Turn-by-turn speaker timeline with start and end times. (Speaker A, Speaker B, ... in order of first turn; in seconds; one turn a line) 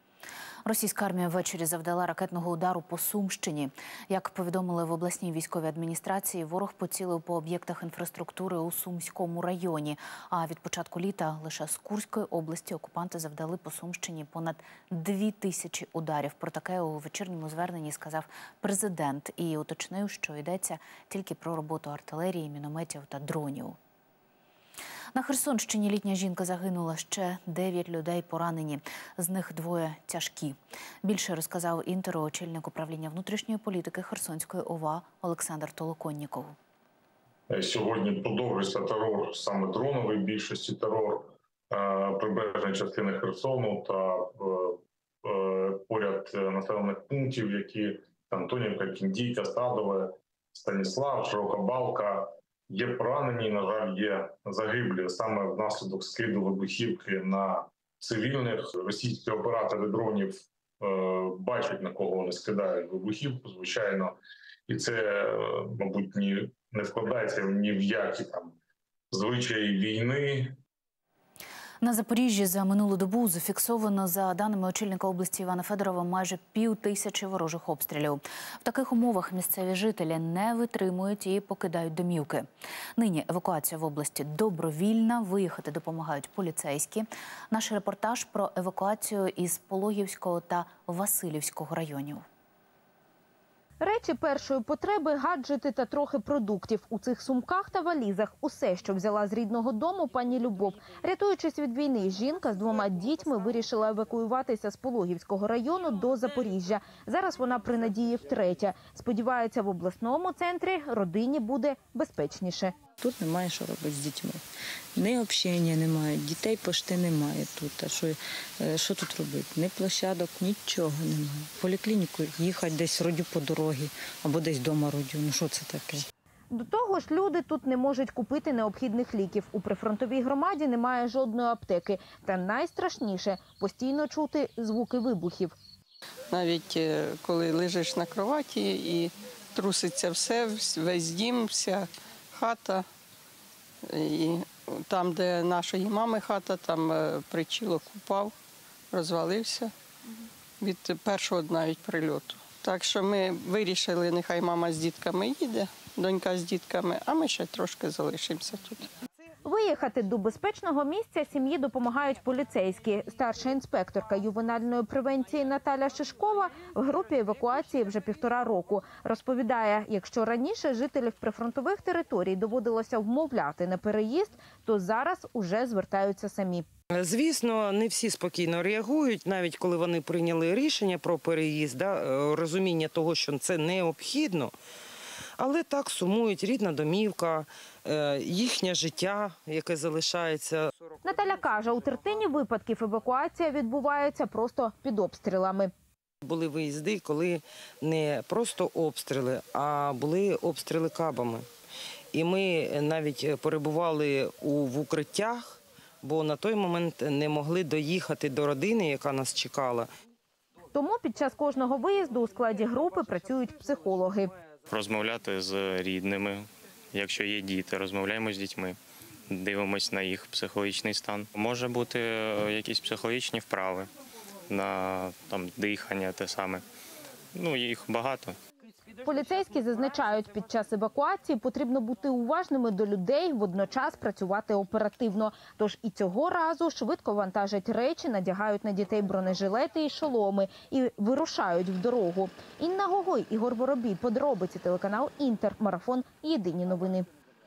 Speaker A: 0.6-23.8
Speaker A: 25.1-36.5
Speaker B: 37.5-68.6
Speaker B: 69.1-70.5
Speaker A: 71.8-82.5
Speaker A: 83.0-92.2
Speaker C: 93.8-112.8
Speaker D: 113.0-114.4
Speaker D: 115.0-126.0
Speaker C: 126.5-135.5
Speaker E: 136.3-142.9
Speaker E: 143.8-148.3
Speaker E: 148.9-149.7
Speaker E: 150.6-158.9
Speaker C: 159.4-176.6
Speaker F: 176.9-184.5
Speaker F: 185.4-190.7
Speaker C: 191.0-195.7
Speaker F: 196.2-201.5
Speaker F: 202.1-209.9
Speaker C: 210.7-214.3
Speaker G: 214.7-218.8
Speaker G: 219.3-223.9
Speaker G: 224.5-226.6
Speaker G: 227.3-228.3
Speaker C: 229.0-247.1